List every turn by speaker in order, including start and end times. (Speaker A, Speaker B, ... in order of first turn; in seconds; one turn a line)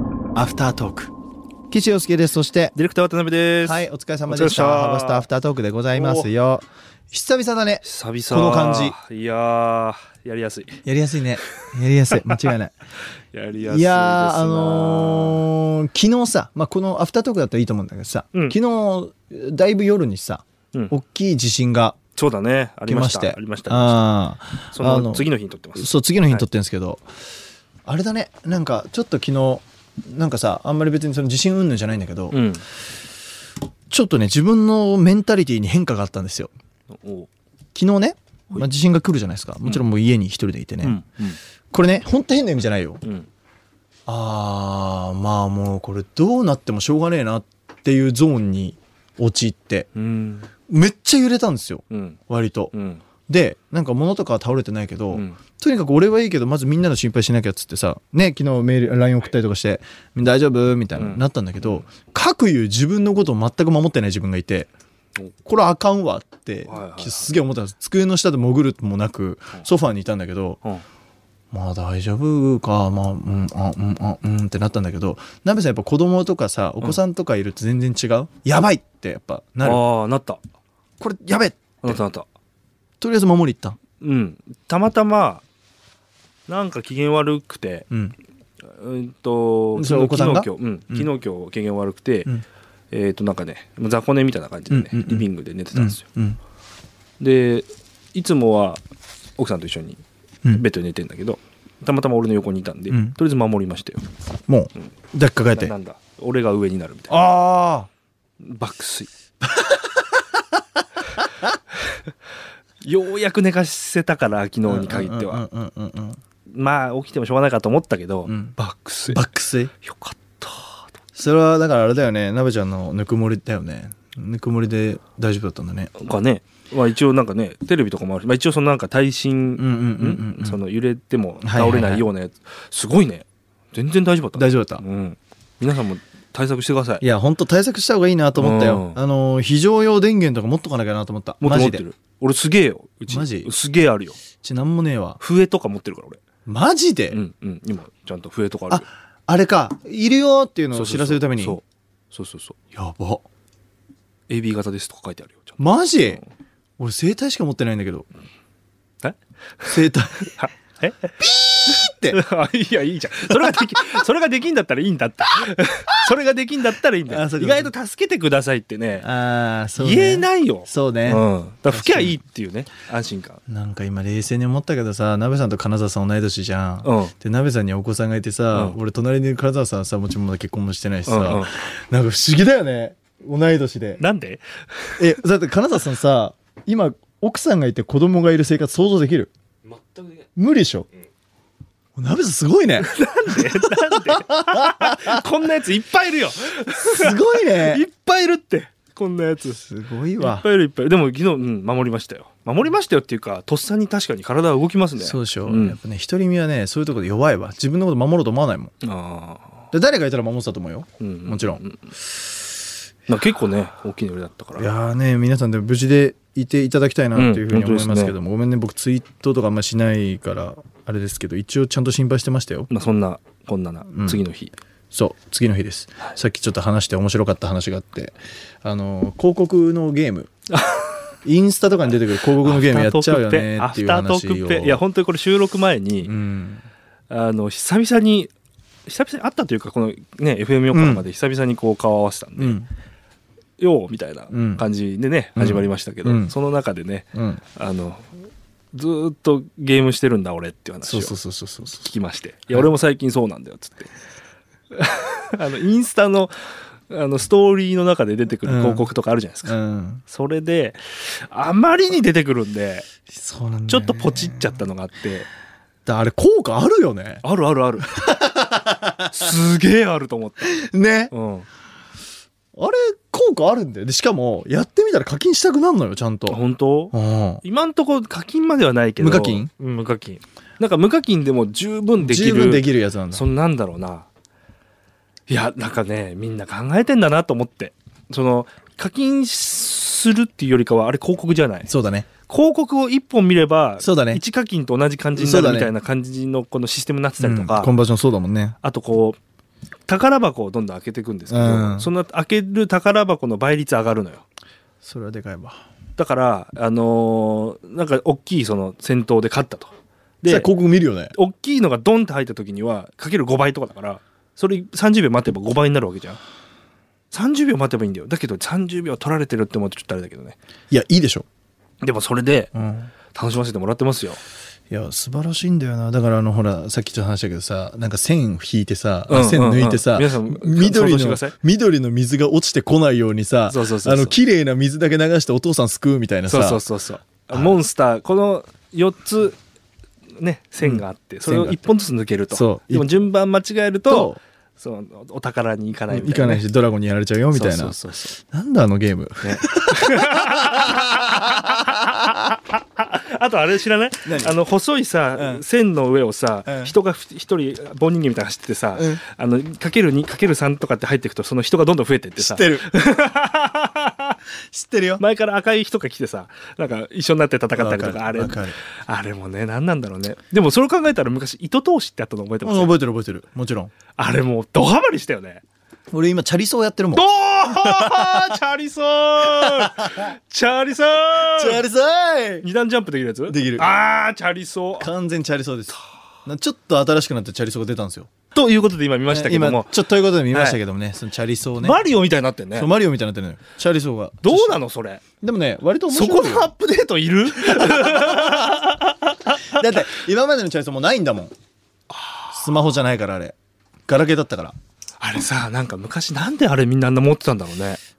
Speaker A: 0.3-1.1
Speaker A: 1.7-2.8
Speaker B: 2.8-5.3
Speaker A: 3.6-9.0
Speaker B: 5.9-6.3
Speaker B: 7.8-10.8
Speaker A: 10.8-12.7
Speaker B: 11.5-12.4
Speaker B: 13.3-15.5
Speaker A: 13.7-22.0
Speaker B: 22.1-24.1
Speaker A: 22.9-27.0
Speaker B: 24.7-26.5
Speaker A: 27.9-32.4
Speaker B: 32.3-32.6
Speaker A: 33.9-36.5
Speaker B: 36.9-37.3
Speaker A: 37.8-41.0
Speaker B: 40.8-41.4
Speaker A: 41.7-43.0
Speaker A: 44.1-49.9
Speaker B: 49.9-50.5
Speaker A: 50.7-52.7
Speaker B: 51.9-52.2
Speaker B: 52.7-53.0
Speaker A: 53.3-64.7
Speaker B: 55.1-55.4
Speaker B: 61.0-61.9
Speaker A: 65.5-70.6
Speaker B: 66.7-67.3
Speaker A: 71.5-79.8
Speaker B: 79.6-80.4
Speaker A: 81.0-82.0
Speaker B: 81.8-82.3
Speaker A: 83.0-83.8
Speaker B: 84.0-85.4
Speaker B: 86.5-87.9
Speaker B: 88.6-92.3
Speaker A: 89.8-91.1
Speaker B: 92.9-96.0
Speaker A: 94.7-96.4
Speaker B: 97.2-98.8
Speaker B: 99.4-104.0
Speaker A: 102.9-103.2
Speaker A: 104.5-105.7
Speaker B: 105.5-107.2
Speaker A: 107.1-107.9
Speaker B: 108.4-109.1
Speaker A: 109.4-110.0
Speaker B: 112.8-115.4
Speaker A: 114.7-116.2
Speaker B: 116.5-119.2
Speaker A: 118.3-118.6
Speaker A: 119.1-119.7
Speaker B: 119.8-120.9
Speaker A: 121.2-125.9
Speaker B: 126.0-137.0
Speaker A: 129.6-130.6
Speaker A: 131.4-132.1
Speaker A: 134.3-134.8
Speaker A: 137.0-141.8
Speaker B: 138.4-139.0
Speaker B: 141.4-144.2
Speaker A: 143.1-143.5
Speaker A: 144.4-145.2
Speaker B: 145.2-146.2
Speaker A: 146.5-147.2
Speaker B: 147.1-148.8
Speaker A: 148.7-151.6
Speaker B: 150.7-152.6
Speaker A: 152.7-153.2
Speaker B: 154.3-156.3
Speaker A: 155.6-156.2
Speaker A: 156.8-158.1
Speaker B: 159.0-161.1
Speaker A: 159.7-160.3
Speaker A: 161.2-162.2
Speaker B: 161.7-169.1
Speaker A: 163.3-164.0
Speaker A: 167.1-167.7
Speaker A: 169.0-172.2
Speaker B: 169.8-173.4
Speaker A: 173.5-184.0
Speaker B: 176.8-177.1
Speaker B: 181.1-181.5
Speaker B: 184.0-185.1
Speaker A: 185.0-189.3
Speaker A: 190.4-190.9
Speaker A: 192.0-195.2
Speaker B: 192.8-199.6
Speaker A: 196.8-197.9
Speaker A: 199.6-200.5
Speaker B: 200.2-205.8
Speaker A: 205.0-208.7
Speaker B: 208.8-209.6
Speaker A: 209.7-211.6
Speaker B: 211.0-211.9
Speaker B: 213.1-214.7
Speaker A: 214.6-222.7
Speaker B: 217.2-218.1
Speaker B: 222.7-224.6
Speaker A: 223.9-224.2
Speaker A: 224.9-230.3
Speaker B: 230.5-231.0
Speaker A: 231.2-234.8
Speaker B: 232.4-236.1
Speaker A: 236.0-236.7
Speaker B: 237.1-238.3
Speaker B: 238.9-242.6
Speaker A: 240.7-241.1
Speaker A: 242.4-242.7
Speaker B: 243.6-248.1
Speaker A: 244.3-244.7
Speaker A: 245.4-246.3
Speaker A: 247.1-247.4
Speaker B: 248.7-251.2
Speaker A: 250.8-251.9
Speaker B: 251.8-253.9
Speaker B: 254.7-256.3
Speaker B: 256.9-262.9
Speaker A: 258.4-258.9
Speaker A: 259.4-260.0
Speaker A: 263.1-264.6
Speaker B: 263.7-265.3
Speaker A: 265.9-267.2
Speaker B: 267.2-268.0
Speaker A: 267.8-269.2
Speaker B: 269.1-270.5
Speaker A: 270.4-271.1
Speaker B: 271.1-271.5
Speaker A: 272.6-276.4
Speaker B: 276.3-284.1
Speaker A: 276.9-277.4
Speaker A: 279.0-279.5
Speaker A: 282.0-283.3
Speaker B: 285.3-291.7
Speaker A: 291.7-292.1
Speaker B: 292.3-297.8
Speaker A: 293.8-294.2
Speaker A: 295.1-295.7
Speaker A: 297.2-298.6
Speaker B: 298.6-299.2
Speaker B: 299.9-304.2
Speaker A: 301.3-301.9
Speaker A: 304.8-305.6
Speaker B: 306.0-310.5
Speaker A: 310.3-311.1
Speaker B: 311.1-316.2
Speaker B: 317.1-320.4
Speaker A: 320.7-321.3
Speaker B: 321.8-322.5
Speaker A: 322.5-322.9
Speaker B: 323.1-324.2
Speaker A: 324.7-336.6
Speaker B: 329.1-331.4
Speaker B: 333.5-334.2
Speaker B: 336.3-339.4
Speaker A: 337.3-337.6
Speaker B: 340.2-346.4
Speaker A: 340.6-341.7
Speaker A: 342.3-342.9
Speaker A: 343.9-344.2
Speaker A: 345.9-351.5
Speaker B: 347.3-348.1
Speaker B: 349.2-364.2
Speaker A: 354.0-354.4
Speaker A: 355.2-355.4
Speaker A: 356.5-356.7
Speaker A: 358.8-359.0
Speaker A: 362.2-362.7
Speaker A: 364.5-365.0
Speaker B: 365.0-372.8
Speaker A: 367.5-368.6
Speaker A: 372.4-373.7
Speaker B: 374.0-375.4
Speaker A: 375.9-378.4
Speaker B: 376.9-381.6
Speaker A: 379.2-380.0
Speaker A: 381.2-382.5
Speaker B: 382.4-384.9
Speaker A: 383.3-383.8
Speaker A: 384.8-385.8
Speaker A: 386.3-388.1
Speaker B: 388.3-389.7
Speaker A: 389.1-391.8
Speaker B: 390.3-390.6
Speaker B: 391.6-392.7
Speaker A: 392.5-394.6
Speaker B: 394.2-395.0
Speaker A: 395.2-396.5
Speaker B: 395.9-399.7
Speaker A: 397.4-398.7
Speaker A: 399.5-401.3
Speaker B: 401.9-402.6
Speaker A: 402.3-403.4
Speaker A: 403.9-404.6
Speaker B: 405.0-407.8